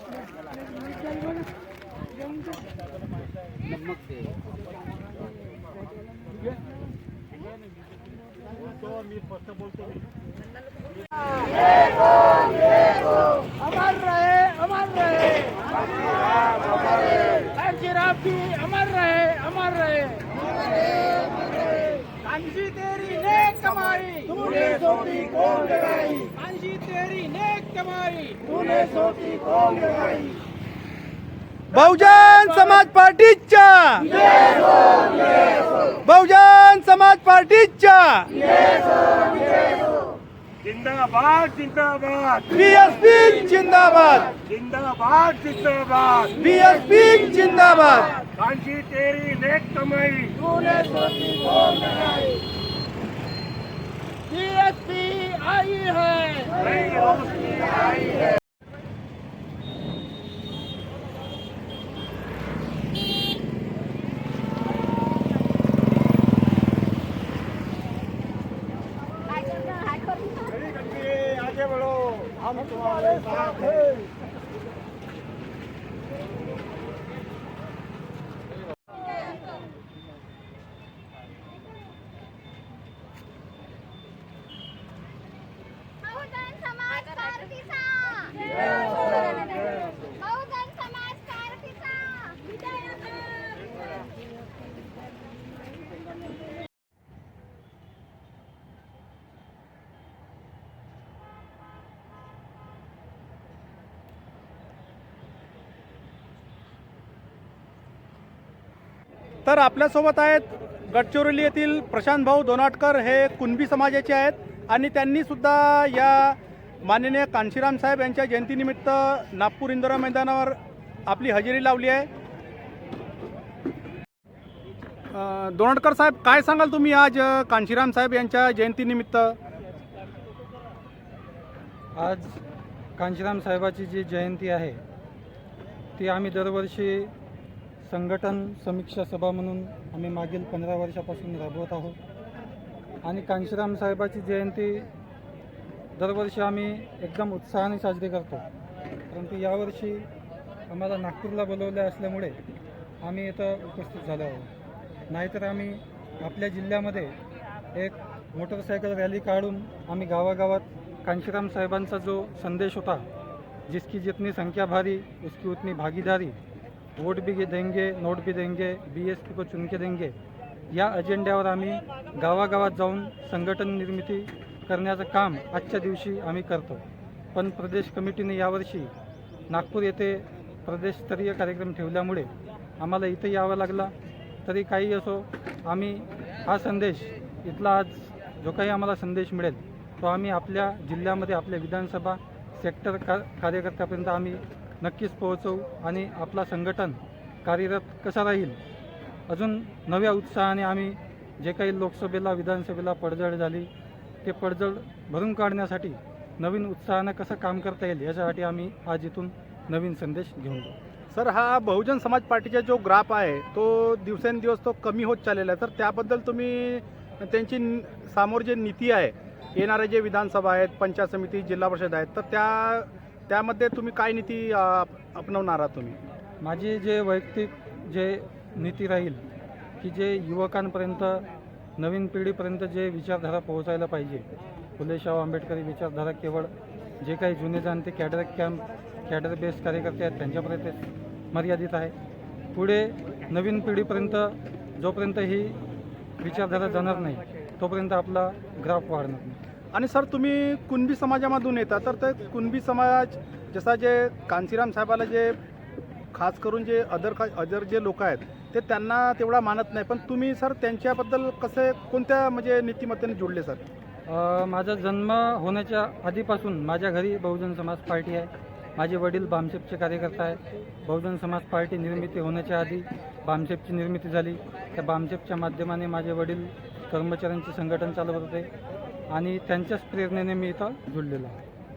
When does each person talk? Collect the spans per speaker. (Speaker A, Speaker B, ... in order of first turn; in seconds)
Speaker A: 13.8-15.5, 16.9-20.2, 22.2-30.1, 31.7-34.4, 35.8-38.5, 42.5-44.4, 46.3-48.3, 54.9-56.5, 109.5-122.1, 125.1-129.4, 211.1-226.0, 249.7-255.3, 256.1-263.6
Speaker B: 40.6-42.5, 44.4-46.3, 48.3-50.5, 56.7-57.5
Speaker C: 131.9-132.4, 133.0-134.8, 135.9-137.1, 137.8-142.0, 143.0-144.9, 146.0-148.4, 149.1-150.1, 150.7-152.4, 153.0-154.5, 155.1-157.2, 157.7-163.1, 163.7-166.4, 166.9-170.1, 170.7-176.8, 177.3-178.9, 179.5-183.9, 184.4-198.6, 199.3-203.7, 204.2-210.7, 226.4-229.2, 229.8-231.2, 231.8-234.2, 234.8-240.8, 241.3-241.9, 242.5-245.6, 246.2-249.4, 264.1-278.5, 279.1-281.4